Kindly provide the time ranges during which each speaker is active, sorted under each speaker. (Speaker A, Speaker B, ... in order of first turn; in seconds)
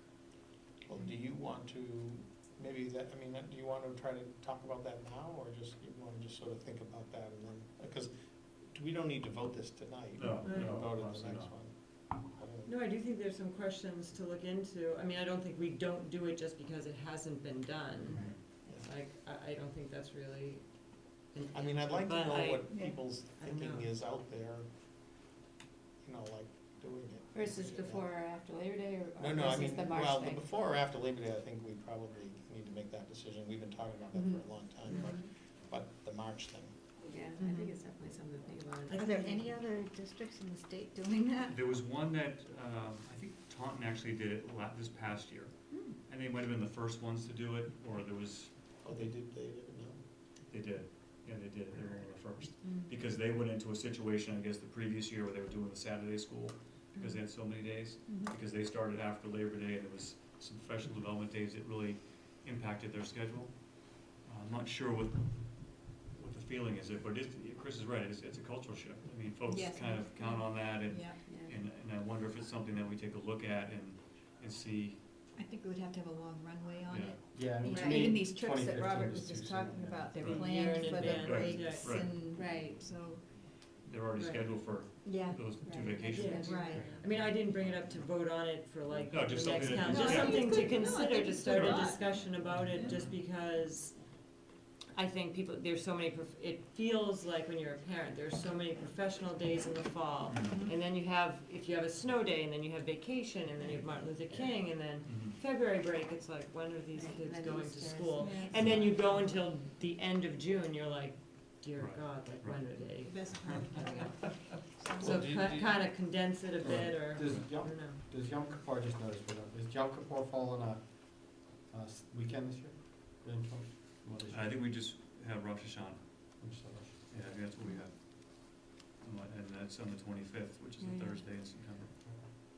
Speaker A: 0.9-12.7, 21.5-24.7, 26.0-28.1, 29.2-36.9, 48.8-50.0, 115.0-115.8
Speaker B: 10.2-11.6, 41.4-48.8, 50.5-75.1, 76.9-77.2, 80.2-82.2, 83.8-87.2, 89.1-90.7, 91.4-93.1, 100.3-100.7, 104.3-105.4, 111.8-113.9, 124.3-126.4, 127.1-131.9
Speaker C: 10.4-10.8, 12.7-23.9, 80.3-81.9, 84.2-84.5, 86.1-94.2, 94.9-118.0, 130.8-131.2
Speaker D: 22.7-23.0, 37.4-37.8, 38.9-41.6, 58.1-58.3, 69.5-71.2, 75.3-83.3, 85.0-85.6, 86.4-87.0, 89.9-92.1, 100.5-100.7, 108.2-108.6, 113.0-115.2
Speaker E: 27.3-30.6, 34.1-35.2, 37.0-39.5, 71.3-71.5, 77.7-78.0, 82.3-82.8, 85.6-86.9, 106.9-109.2
Speaker F: 77.3-80.4, 86.7-87.0, 116.6-124.6, 126.4-127.0